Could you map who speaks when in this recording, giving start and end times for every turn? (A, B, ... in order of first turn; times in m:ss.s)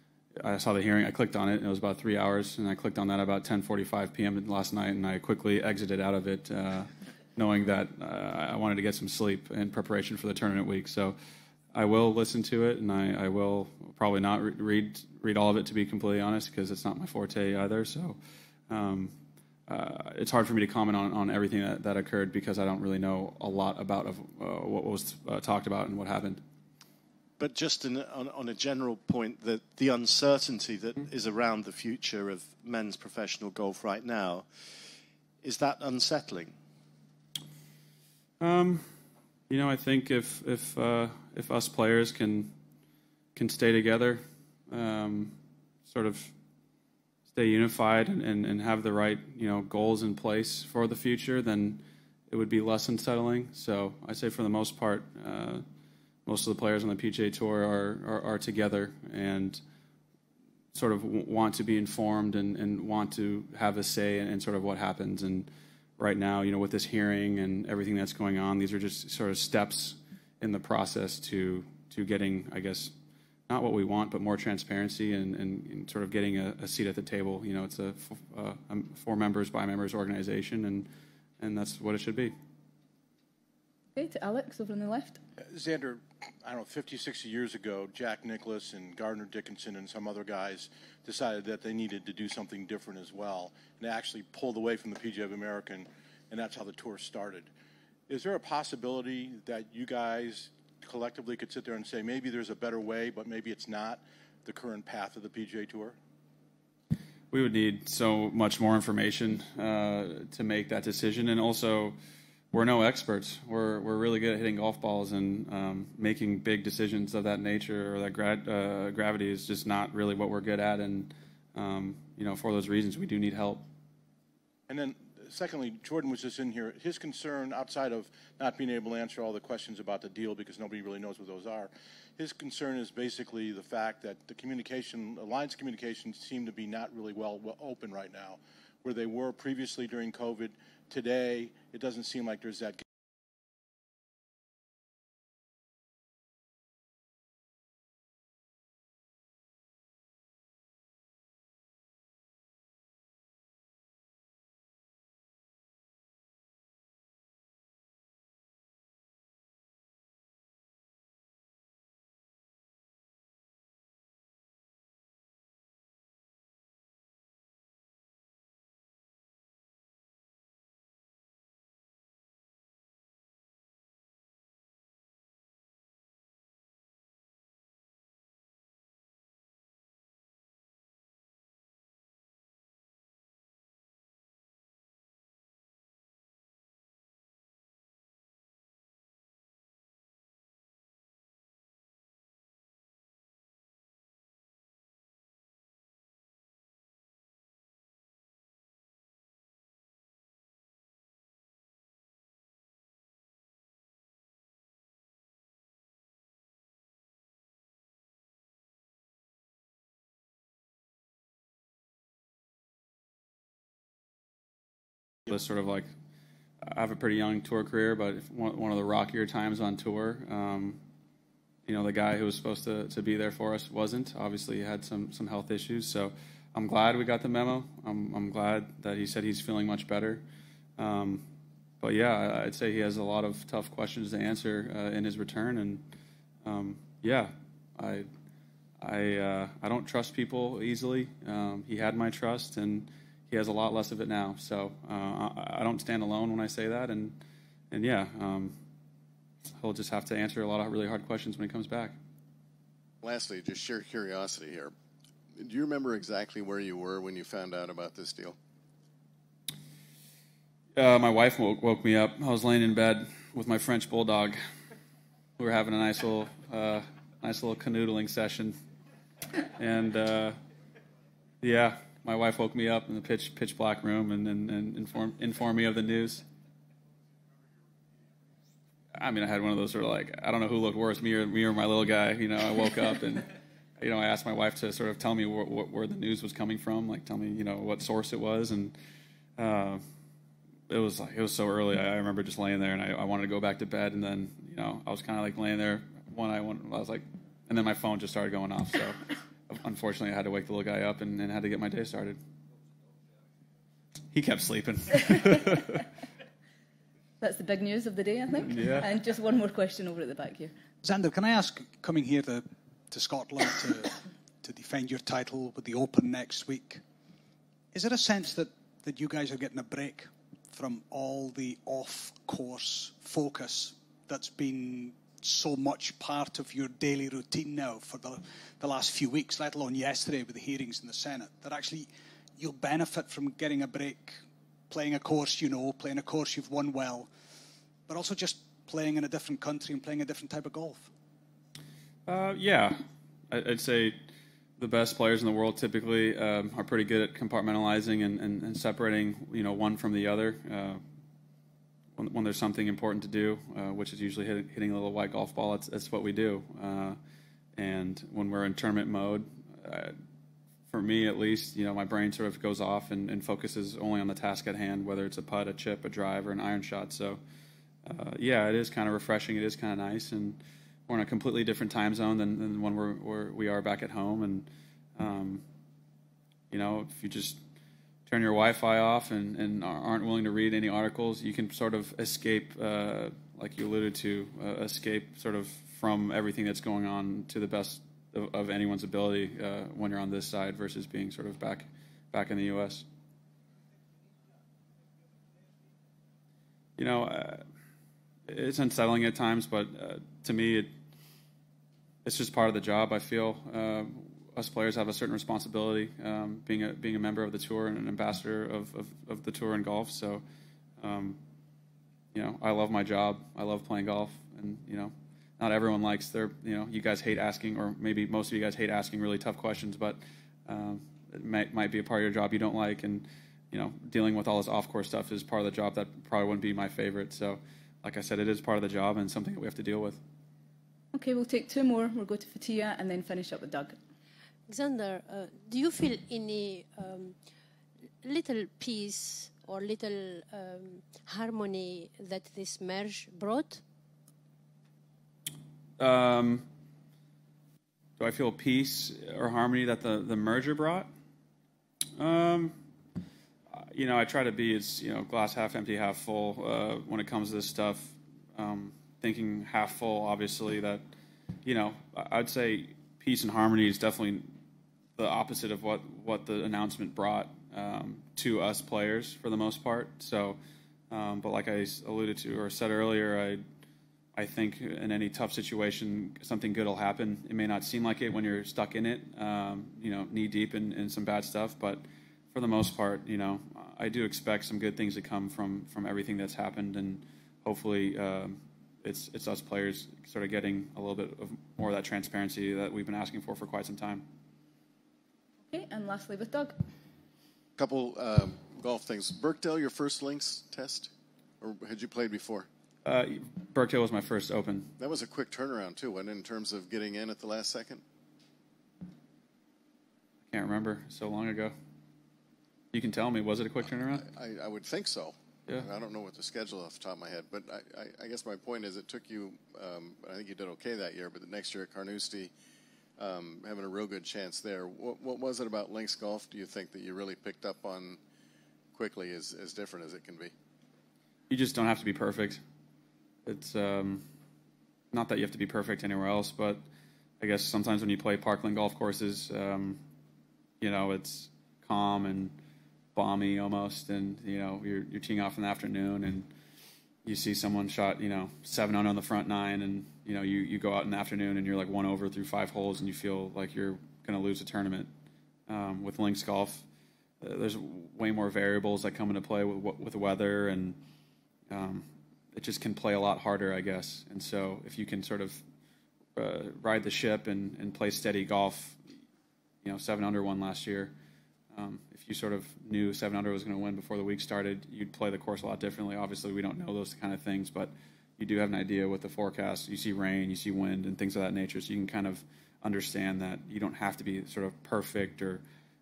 0:00.4-0:11.2 A
0:11.7-0:18.2 A
0:18.7-0:19.1 A
0:19.7-0:26.4 A
0:27.4-0:34.5 B
0:35.4-0:36.5 B
0:38.4-0:38.9 A
0:39.5-0:42.5 A
0:43.4-0:46.3 A
0:47.3-0:55.6 A
0:56.2-0:59.6 A
1:00.7-1:12.9 A
1:13.5-1:20.9 A
1:21.4-1:22.3 A
1:23.9-1:25.2 C
1:25.5-1:37.5 D
1:38.1-1:46.0 D
1:47.3-1:52.0 A
1:52.5-2:03.6 A
2:04.7-2:22.8 D
3:35.3-3:35.9 A
3:36.6-3:40.8 A
3:41.6-3:50.2 A
3:50.8-3:51.3 A
3:51.8-3:55.8 A
3:56.4-3:58.1 A
3:58.8-4:07.2 A
4:07.7-4:08.5 A
4:09.6-4:12.0 A
4:13.0-4:14.7 E
4:15.3-4:18.4 E
4:20.8-4:24.4 A
4:25.4-4:28.5 A
4:29.6-4:30.4 A
4:31.4-4:36.2 A
4:39.0-4:48.7 A
4:49.4-4:49.8 A
4:50.7-5:02.2 A
5:04.1-5:05.8 A
5:07.2-5:10.5 C
5:08.4-5:08.8 A
5:10.8-5:16.8 F
5:17.7-5:37.1 F
5:37.9-5:40.9 F
5:42.0-5:42.8 A
5:43.3-5:44.0 A
5:44.6-5:50.8 A
5:52.0-5:57.0 A
5:57.6-5:59.9 A
6:00.7-6:07.2 A
6:07.8-6:15.4 A
6:16.5-6:17.4 A
6:18.0-6:32.8 A
6:36.8-6:37.4 A
6:38.3-6:40.7 A
6:42.0-6:50.2 A
6:50.8-6:51.2 A
6:52.1-7:10.0 A
7:10.9-7:13.8 C
7:14.5-7:17.1 G
7:18.0-7:23.6 G
7:25.8-7:26.4 A
7:28.0-7:30.9 A
7:32.0-7:32.6 A
7:33.5-7:40.8 A
7:41.4-7:44.3 A
7:45.0-7:50.4 A
7:50.9-7:53.4 A
7:54.2-8:14.0 A
8:15.5-8:16.5 C
8:17.6-8:22.5 E
8:22.8-8:24.7 A
8:24.8-8:27.8 E
8:30.3-8:31.5 A
8:32.7-8:34.1 A
8:34.1-8:42.3 E
8:43.0-8:48.0 E
8:48.7-8:50.3 E
8:51.3-8:52.4 A
8:53.2-8:54.0 A
8:54.9-8:56.6 A
8:57.2-8:59.8 A
9:00.6-9:02.3 A
9:02.9-9:06.3 A
9:07.0-9:14.9 A
9:15.5-9:16.6 A
9:17.2-9:20.8 A
9:21.5-9:25.4 A
9:26.2-9:28.8 A
9:29.6-9:30.9 A
9:31.5-9:45.4 A